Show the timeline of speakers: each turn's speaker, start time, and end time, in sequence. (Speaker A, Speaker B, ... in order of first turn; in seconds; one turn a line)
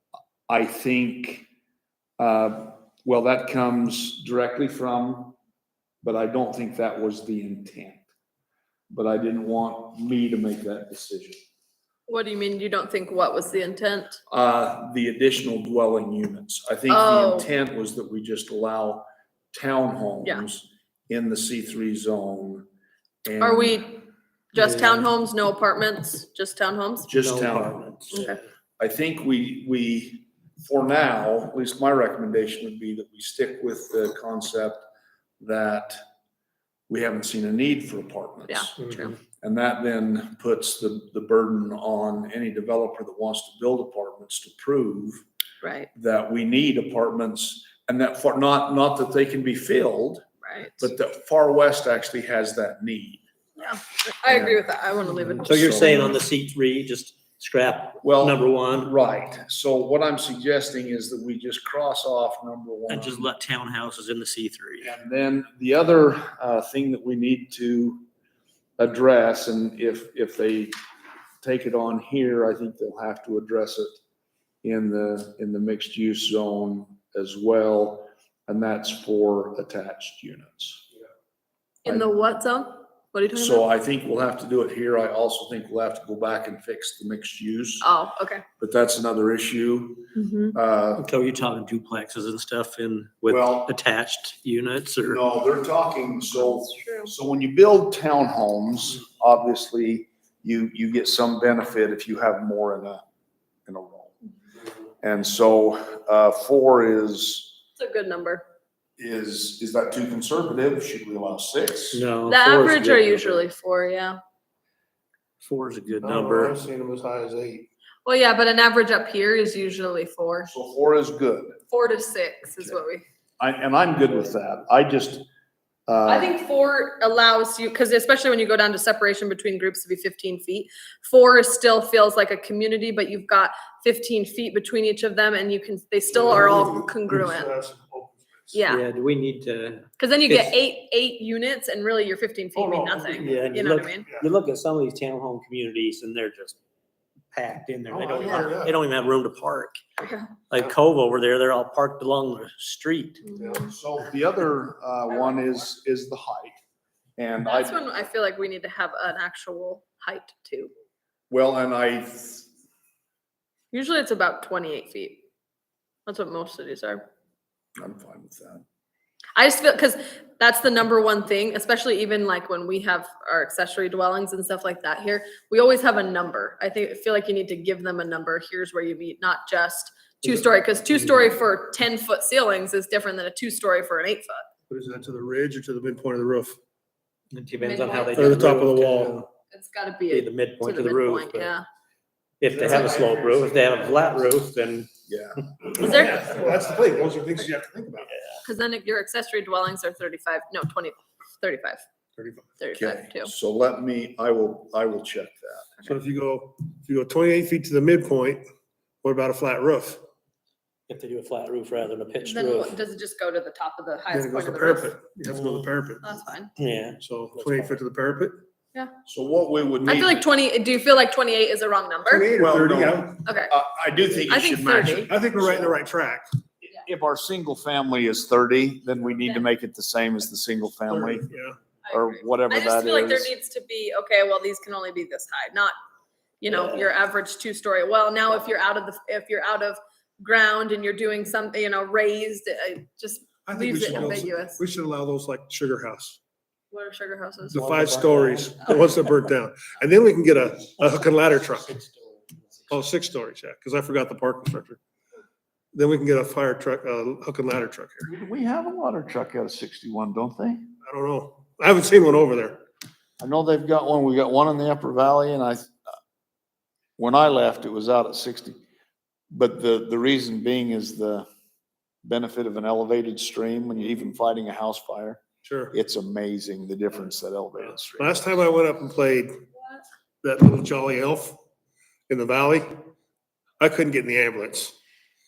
Speaker A: 0.5-1.5
Speaker A: 2.2-5.3
Speaker A: 6.0-8.0
Speaker A: 8.9-11.4
Speaker B: 12.1-14.2
Speaker A: 14.3-22.7
Speaker B: 16.9-17.5
Speaker A: 23.2-23.9
Speaker B: 23.4-27.1
Speaker C: 24.6-25.1
Speaker A: 27.1-34.8
Speaker C: 27.1-28.3
Speaker B: 28.1-28.4
Speaker A: 35.4-36.0
Speaker A: 36.9-38.7
Speaker B: 38.5-39.2
Speaker A: 39.3-45.2
Speaker B: 45.6-45.9
Speaker A: 45.9-50.2
Speaker B: 50.4-50.9
Speaker A: 50.8-53.2
Speaker B: 53.6-56.2
Speaker A: 54.3-54.6
Speaker C: 55.4-58.9
Speaker A: 55.6-55.9
Speaker A: 58.0-63.3
Speaker C: 62.9-64.9
Speaker A: 64.8-68.0
Speaker A: 68.8-70.7
Speaker A: 71.4-74.0
Speaker A: 74.6-80.8
Speaker B: 81.8-83.6
Speaker A: 81.8-82.1
Speaker A: 83.3-87.9
Speaker B: 87.8-88.4
Speaker A: 88.6-91.0
Speaker B: 90.1-90.5
Speaker C: 91.0-95.2
Speaker A: 93.3-93.7
Speaker A: 95.0-103.0
Speaker B: 96.3-97.1
Speaker A: 103.7-104.1
Speaker A: 105.0-107.5
Speaker B: 107.8-108.4
Speaker A: 109.0-112.0
Speaker C: 111.9-113.4
Speaker B: 112.3-114.2
Speaker C: 115.4-116.6
Speaker D: 116.0-117.7
Speaker B: 118.0-120.5
Speaker A: 120.5-121.6
Speaker B: 121.7-123.0
Speaker A: 123.4-125.2
Speaker A: 125.9-126.3
Speaker B: 126.0-137.5
Speaker D: 136.1-138.6
Speaker B: 138.5-138.8
Speaker C: 138.7-140.5
Speaker B: 140.0-144.1
Speaker D: 142.6-144.2
Speaker C: 143.1-146.6
Speaker C: 147.3-149.8
Speaker D: 147.9-148.8
Speaker B: 150.0-150.3
Speaker C: 150.5-153.2
Speaker B: 153.2-153.7
Speaker D: 153.4-153.7
Speaker A: 153.7-156.6
Speaker B: 155.1-155.5
Speaker A: 157.2-157.8
Speaker B: 157.4-160.7
Speaker A: 161.3-162.5
Speaker B: 163.7-165.2
Speaker B: 166.1-167.0
Speaker A: 167.8-168.6
Speaker B: 169.3-184.4
Speaker D: 184.7-186.6
Speaker C: 187.3-189.3
Speaker B: 187.6-188.3
Speaker D: 188.1-189.2
Speaker B: 189.5-191.7
Speaker C: 190.1-191.5
Speaker C: 192.4-194.9
Speaker D: 192.5-194.2
Speaker A: 195.1-195.4
Speaker D: 195.6-198.1
Speaker B: 195.8-196.3
Speaker B: 198.4-201.8
Speaker D: 202.2-202.4
Speaker B: 202.6-203.3
Speaker A: 202.7-205.8
Speaker D: 205.8-208.4
Speaker D: 209.0-210.0
Speaker C: 210.9-212.8
Speaker B: 212.2-215.0
Speaker D: 214.1-216.1
Speaker B: 216.0-216.5
Speaker C: 216.6-217.0
Speaker D: 217.0-218.4
Speaker A: 219.1-220.2
Speaker B: 219.8-222.3
Speaker D: 222.1-223.2
Speaker A: 222.4-225.7
Speaker B: 223.2-223.5
Speaker B: 224.3-225.1
Speaker D: 225.1-226.2
Speaker A: 226.6-231.3
Speaker D: 230.9-231.6
Speaker B: 231.8-235.7
Speaker A: 231.9-233.3
Speaker B: 236.4-244.6
Speaker D: 243.4-246.2
Speaker B: 246.7-247.6
Speaker D: 247.5-251.7
Speaker C: 247.6-248.7
Speaker C: 251.0-252.7
Speaker D: 252.7-254.8
Speaker D: 255.7-258.1
Speaker A: 258.0-260.7
Speaker D: 260.8-262.6
Speaker A: 263.2-265.7
Speaker A: 267.0-268.6
Speaker A: 269.3-271.3
Speaker A: 272.0-278.4
Speaker D: 275.4-275.7
Speaker D: 277.8-279.4
Speaker D: 280.2-281.4
Speaker D: 282.1-282.7
Speaker D: 283.6-284.7